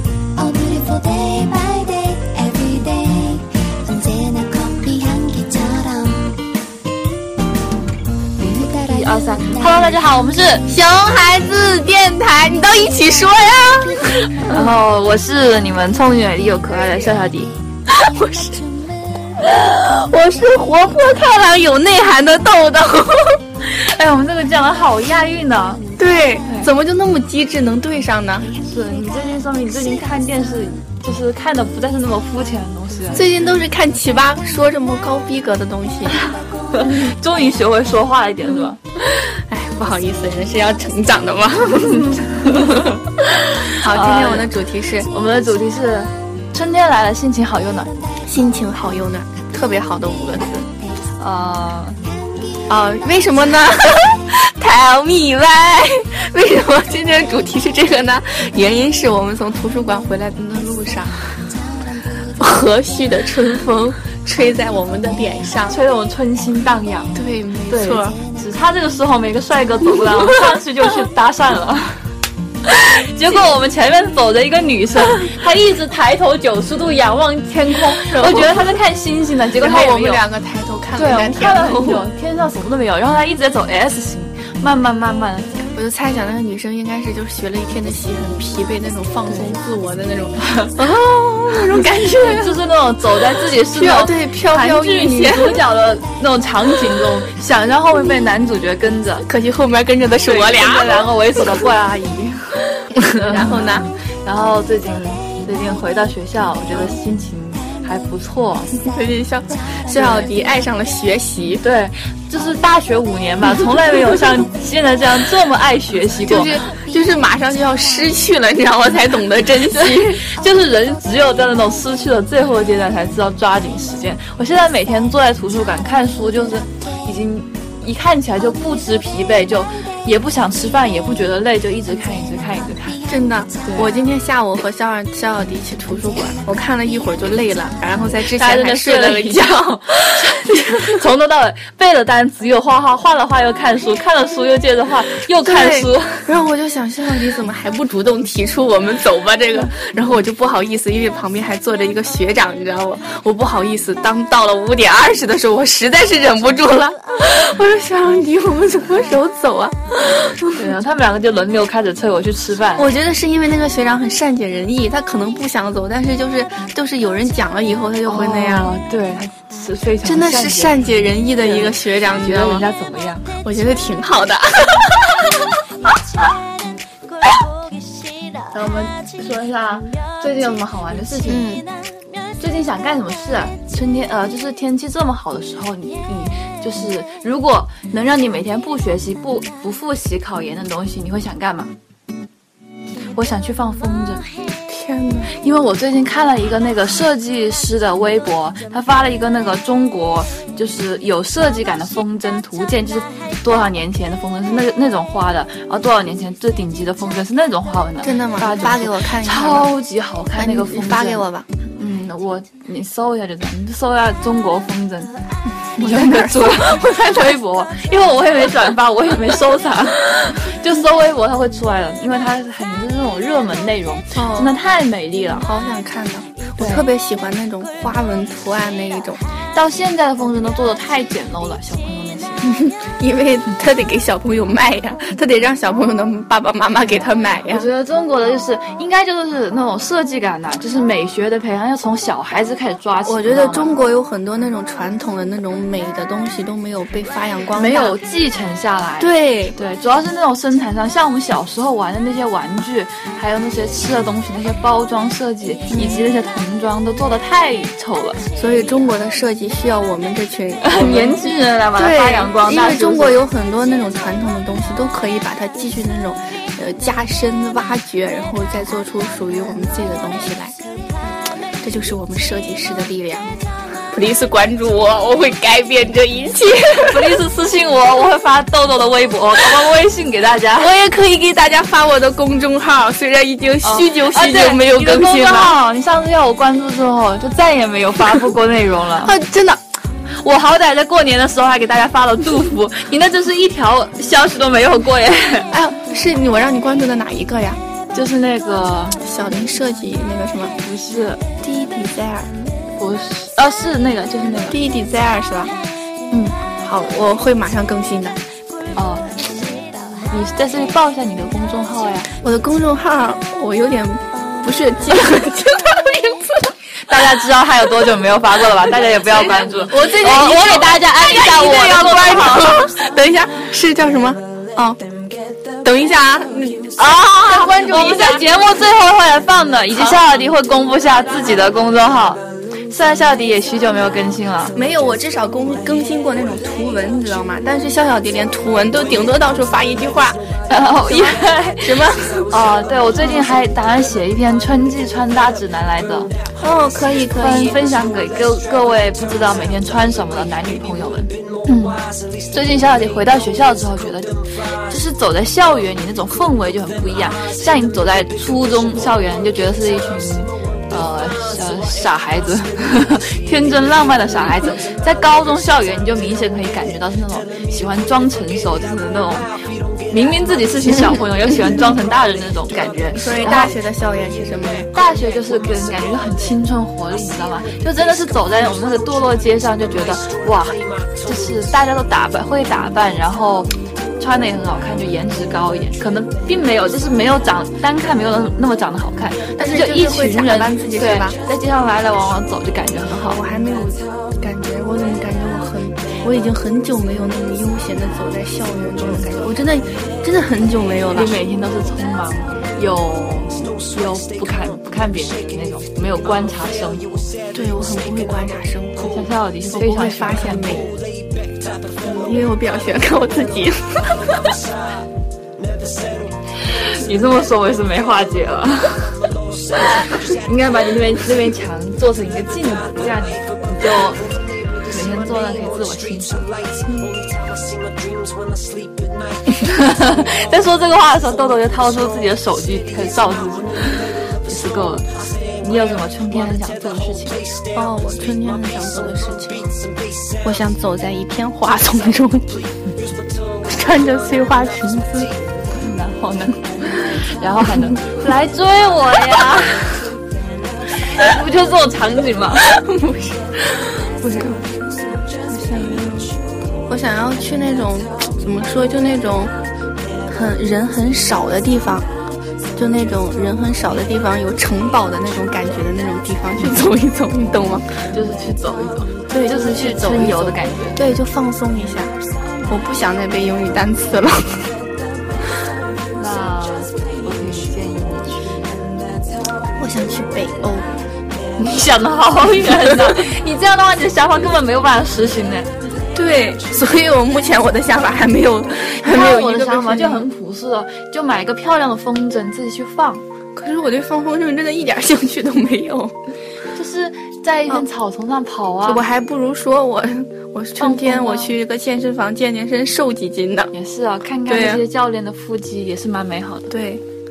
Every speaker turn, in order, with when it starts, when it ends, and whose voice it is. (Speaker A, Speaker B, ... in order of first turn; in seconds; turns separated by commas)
Speaker A: 0.3-6.3, Speaker A: 8.4-10.0, Speaker B: 8.7-10.6, Speaker C: 10.7-14.7, Speaker A: 12.9-14.6, Speaker B: 14.5-17.5, Speaker C: 17.9-18.6, Speaker A: 18.5-19.3, Speaker C: 19.4-23.4, Speaker B: 23.6-25.8, Speaker C: 26.0-28.5, Speaker A: 28.5-29.7, Speaker B: 28.7-33.3, Speaker C: 33.1-36.2, Speaker B: 36.7-38.8, Speaker C: 38.5-42.9, Speaker B: 42.0-44.5, Speaker C: 43.8-45.1, Speaker B: 45.1-47.9, Speaker C: 48.3-50.7, Speaker B: 51.2-52.0, Speaker C: 52.7-61.2, Speaker A: 61.5-62.4, Speaker C: 62.4-65.8, Speaker B: 65.7-67.1, Speaker C: 67.1-68.2, Speaker B: 67.7-72.0, Speaker C: 70.1-70.3, Speaker B: 72.6-80.2, Speaker C: 77.9-78.7, Speaker C: 79.6-82.0, Speaker B: 81.0-85.5, Speaker C: 85.7-92.5, Speaker B: 90.4-90.8, Speaker B: 92.1-99.3, Speaker C: 93.7-95.6, Speaker C: 99.3-101.4, Speaker B: 100.2-108.7, Speaker C: 103.0-103.9, Speaker C: 108.8-111.6, Speaker B: 109.9-110.3, Speaker B: 111.6-116.6, Speaker C: 116.3-120.2, Speaker B: 119.6-133.0, Speaker C: 133.0-141.0, Speaker B: 133.6-133.9, Speaker B: 138.2-146.3, Speaker C: 145.4-160.6, Speaker B: 160.4-162.9, Speaker C: 162.8-168.7, Speaker B: 168.0-173.3, Speaker C: 170.0-172.7, Speaker C: 173.4-175.6, Speaker B: 178.5-181.4, Speaker C: 181.3-181.7, Speaker B: 182.4-191.7, Speaker B: 193.1-194.2, Speaker C: 194.7-195.3, Speaker B: 195.4-211.2, Speaker C: 208.0-209.7, Speaker C: 210.3-211.5, Speaker B: 211.8-215.1, Speaker C: 215.7-216.8, Speaker B: 215.8-225.5, Speaker C: 224.1-224.5, Speaker C: 225.4-229.2, Speaker B: 226.6-226.8, Speaker B: 229.5-232.5, Speaker C: 232.4-237.7, Speaker B: 237.5-243.7, Speaker C: 243.0-248.0, Speaker B: 247.6-258.2, Speaker C: 249.0-249.6, Speaker C: 255.7-256.1, Speaker C: 258.3-261.2, Speaker B: 260.6-263.2, Speaker C: 261.7-270.6, Speaker C: 271.6-273.3, Speaker C: 273.9-277.1, Speaker B: 276.9-280.7, Speaker C: 280.6-285.6, Speaker B: 283.6-289.1, Speaker C: 289.0-289.6, Speaker B: 290.2-295.5, Speaker C: 295.5-297.6, Speaker B: 297.9-299.0, Speaker C: 299.0-300.5, Speaker B: 300.6-301.2, Speaker C: 301.4-302.3, Speaker B: 302.8-304.6, Speaker C: 304.5-305.5, Speaker B: 306.1-306.4, Speaker C: 306.6-308.2, Speaker B: 308.8-309.1, Speaker B: 310.1-312.1, Speaker C: 312.2-316.5, Speaker B: 316.9-322.7, Speaker C: 319.1-324.8, Speaker C: 325.6-328.4, Speaker B: 326.8-334.5, Speaker C: 329.7-330.0, Speaker C: 334.5-340.3, Speaker B: 340.5-346.1, Speaker C: 340.8-342.3, Speaker C: 346.4-347.6, Speaker B: 347.2-351.8, Speaker B: 352.3-369.3, Speaker B: 369.9-373.5, Speaker C: 372.9-374.7, Speaker B: 374.7-393.2, Speaker C: 389.3-391.1, Speaker C: 393.0-401.2, Speaker B: 400.9-407.1, Speaker C: 407.3-410.8, Speaker B: 408.8-410.7, Speaker C: 411.8-414.0, Speaker B: 416.4-418.9, Speaker B: 419.7-424.0, Speaker B: 424.6-426.3, Speaker C: 426.7-426.9, Speaker B: 429.4-434.9, Speaker B: 435.4-437.2, Speaker C: 437.5-439.6, Speaker C: 440.2-442.3, Speaker C: 443.4-445.1, Speaker B: 445.5-449.9, Speaker B: 450.9-452.5, Speaker C: 452.5-454.5, Speaker B: 454.0-454.4, Speaker C: 455.2-456.2, Speaker C: 456.7-459.3, Speaker C: 460.1-461.9, Speaker C: 462.5-467.8, Speaker B: 467.9-470.8, Speaker C: 469.1-474.5, Speaker B: 475.9-478.7, Speaker C: 479.6-480.7, Speaker B: 481.4-485.5, Speaker C: 482.7-482.9, Speaker C: 485.9-490.1, Speaker B: 488.8-493.0, Speaker C: 493.3-495.9, Speaker B: 496.5-498.8, Speaker C: 498.6-503.5, Speaker B: 500.6-501.3, Speaker B: 503.5-506.5, Speaker C: 504.3-504.6, Speaker C: 506.5-506.8